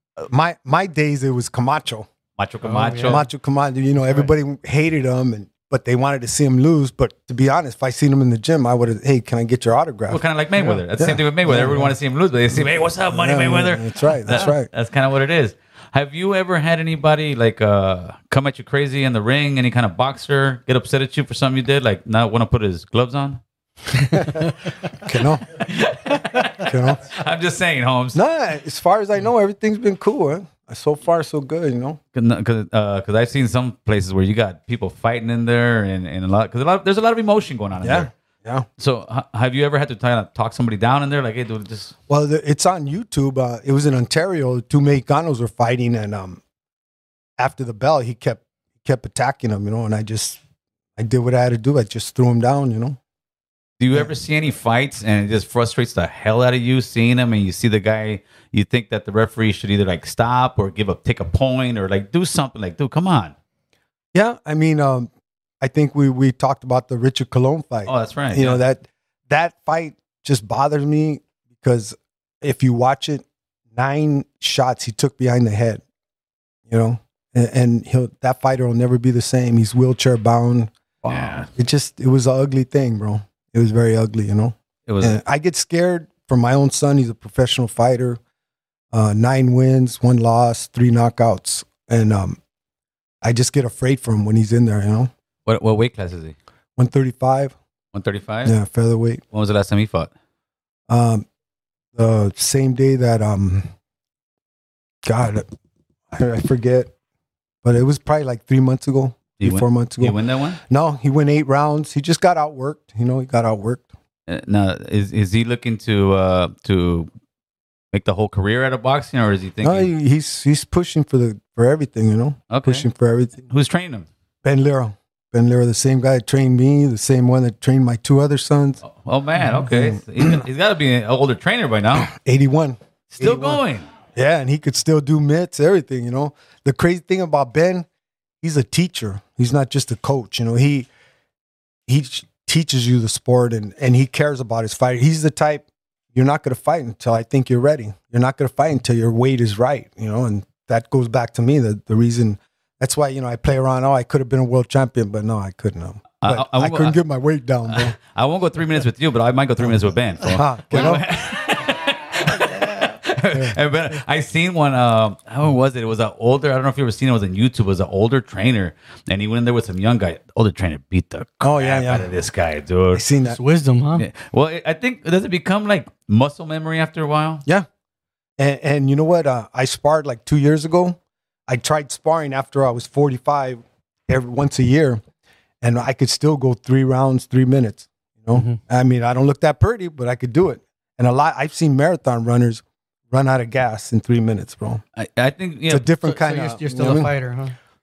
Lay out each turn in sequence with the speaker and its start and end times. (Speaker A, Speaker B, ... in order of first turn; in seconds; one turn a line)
Speaker A: 0.2-2.1
Speaker B: 2.4-3.2
Speaker C: 2.6-3.2
Speaker A: 3.0-11.9
Speaker B: 10.1-23.4
Speaker A: 13.1-14.7
Speaker A: 24.1-25.4
Speaker B: 25.6-28.2
Speaker A: 26.6-27.1
Speaker A: 28.1-32.0
Speaker B: 32.1-38.1
Speaker A: 37.8-38.7
Speaker B: 38.8-41.9
Speaker A: 42.1-46.4
Speaker A: 47.4-50.4
Speaker A: 51.0-53.0
Speaker B: 53.8-63.3
Speaker A: 64.1-65.1
Speaker A: 65.6-75.8
Speaker B: 67.8-68.6
Speaker A: 76.7-88.2
Speaker B: 81.0-81.5
Speaker B: 84.9-85.2
Speaker A: 88.9-92.4
Speaker A: 93.2-95.1
Speaker B: 95.5-96.3
Speaker A: 96.8-97.5
Speaker B: 97.9-98.5
Speaker A: 98.4-99.2
Speaker B: 99.3-100.1
Speaker A: 100.9-101.2
Speaker A: 101.9-103.7
Speaker A: 105.0-105.5
Speaker A: 106.1-106.9
Speaker A: 107.6-110.2
Speaker B: 109.4-110.6
Speaker A: 110.7-113.8
Speaker B: 114.3-117.1
Speaker B: 117.9-119.9
Speaker A: 119.6-123.4
Speaker B: 122.5-122.9
Speaker B: 123.5-124.1
Speaker A: 124.4-128.8
Speaker B: 128.8-132.1
Speaker A: 129.7-130.4
Speaker A: 132.1-133.6
Speaker B: 133.2-133.9
Speaker A: 134.1-137.9
Speaker A: 138.4-140.9
Speaker A: 141.9-157.9
Speaker B: 156.2-157.0
Speaker B: 157.7-173.0
Speaker A: 160.3-161.0
Speaker A: 163.3-163.6
Speaker A: 171.4-172.1
Speaker A: 172.9-173.4
Speaker C: 173.2-174.0
Speaker B: 173.9-177.4
Speaker A: 178.4-185.0
Speaker A: 185.6-194.8
Speaker C: 188.3-188.6
Speaker B: 194.9-195.9
Speaker A: 195.7-197.1
Speaker C: 196.0-197.5